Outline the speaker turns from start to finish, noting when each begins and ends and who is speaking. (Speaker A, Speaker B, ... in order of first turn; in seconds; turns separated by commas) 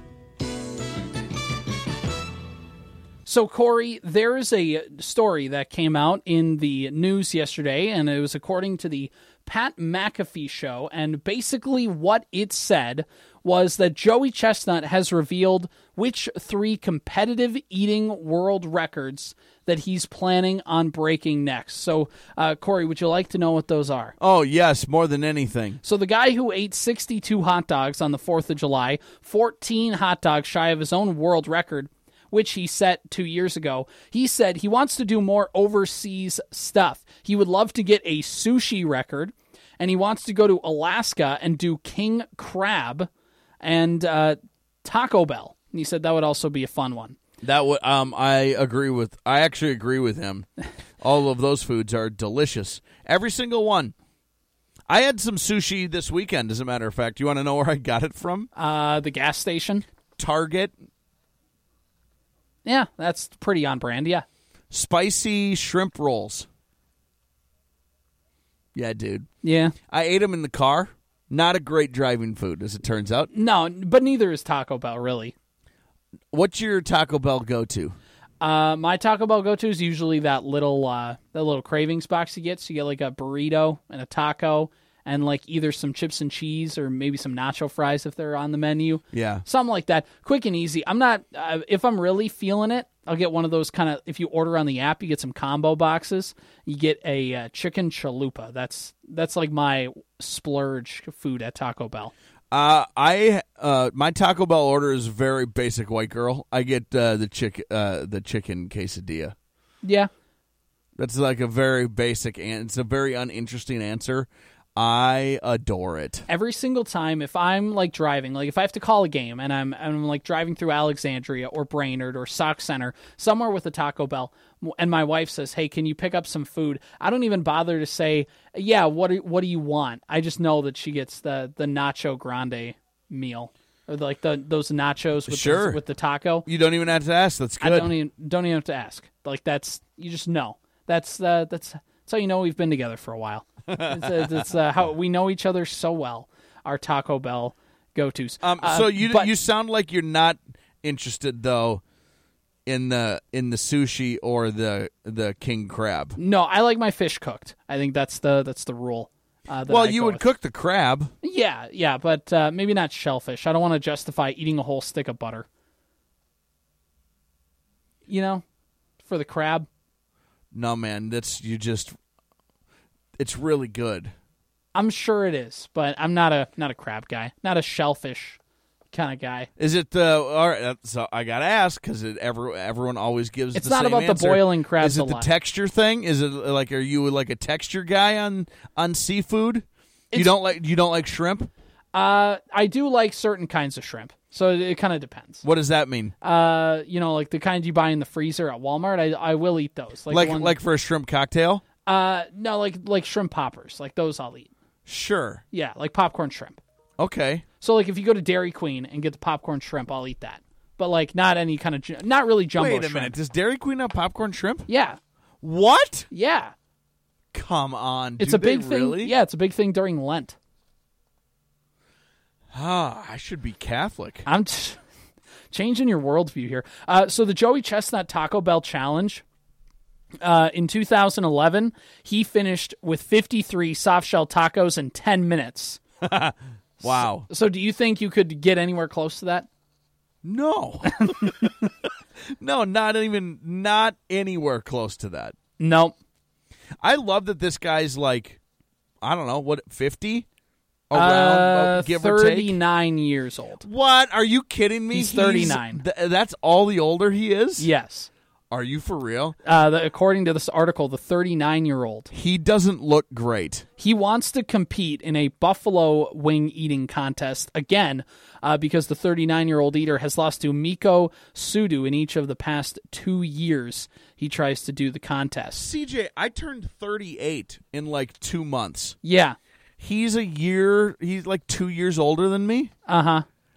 Speaker A: 3.2-24.1, Speaker B: 24.2-25.8, Speaker A: 25.8-43.1, Speaker A: 43.6-47.2, Speaker B: 47.4-50.5, Speaker B: 51.0-53.9, Speaker B: 54.9-58.5, Speaker A: 58.5-59.9, Speaker B: 60.2-60.7, Speaker A: 62.6-64.2, Speaker B: 64.7-66.5, Speaker B: 68.8-69.3, Speaker A: 69.4-69.7, Speaker B: 69.9-73.3, Speaker A: 73.3-75.3, Speaker B: 76.3-78.0, Speaker A: 78.4-102.1, Speaker B: 89.1-89.4, Speaker B: 102.5-109.3, Speaker A: 109.8-110.1, Speaker B: 111.0-116.3, Speaker A: 116.3-136.5, Speaker B: 135.3-135.8, Speaker B: 136.5-137.9, Speaker A: 137.6-149.3, Speaker B: 143.7-144.1, Speaker B: 148.4-151.8, Speaker B: 152.7-156.2, Speaker A: 156.2-160.3, Speaker B: 159.7-161.1, Speaker A: 161.2-165.5, Speaker A: 168.1-168.4, Speaker A: 169.0-169.7, Speaker B: 170.5-171.9, Speaker B: 173.2-174.1, Speaker A: 174.7-178.4, Speaker A: 178.9-179.5, Speaker B: 179.6-191.5, Speaker A: 183.5-185.3, Speaker A: 191.9-195.4, Speaker B: 195.4-196.1, Speaker A: 196.2-200.6, Speaker B: 200.1-201.6, Speaker A: 201.9-204.5, Speaker B: 204.9-205.4, Speaker A: 205.5-206.6, Speaker B: 207.0-207.4, Speaker A: 207.6-213.2, Speaker B: 212.6-214.7, Speaker A: 214.7-215.0, Speaker B: 215.4-216.1, Speaker A: 216.1-216.5, Speaker B: 217.3-219.1, Speaker A: 218.2-220.4, Speaker B: 222.5-224.3, Speaker A: 224.3-224.8, Speaker A: 225.5-229.2, Speaker A: 230.2-235.8, Speaker B: 236.0-237.3, Speaker A: 236.8-239.5, Speaker B: 240.2-241.5, Speaker A: 241.1-241.5, Speaker B: 242.4-245.3, Speaker A: 245.6-245.9, Speaker B: 246.8-248.4, Speaker B: 249.0-250.3, Speaker B: 250.9-252.6, Speaker A: 250.9-253.6, Speaker B: 253.6-257.7, Speaker A: 254.9-255.8, Speaker A: 257.6-258.1, Speaker B: 258.5-259.4, Speaker A: 259.4-262.1, Speaker B: 262.1-263.6, Speaker A: 263.8-275.7, Speaker B: 275.6-279.0, Speaker A: 279.0-279.4, Speaker B: 279.8-282.7, Speaker A: 282.9-283.2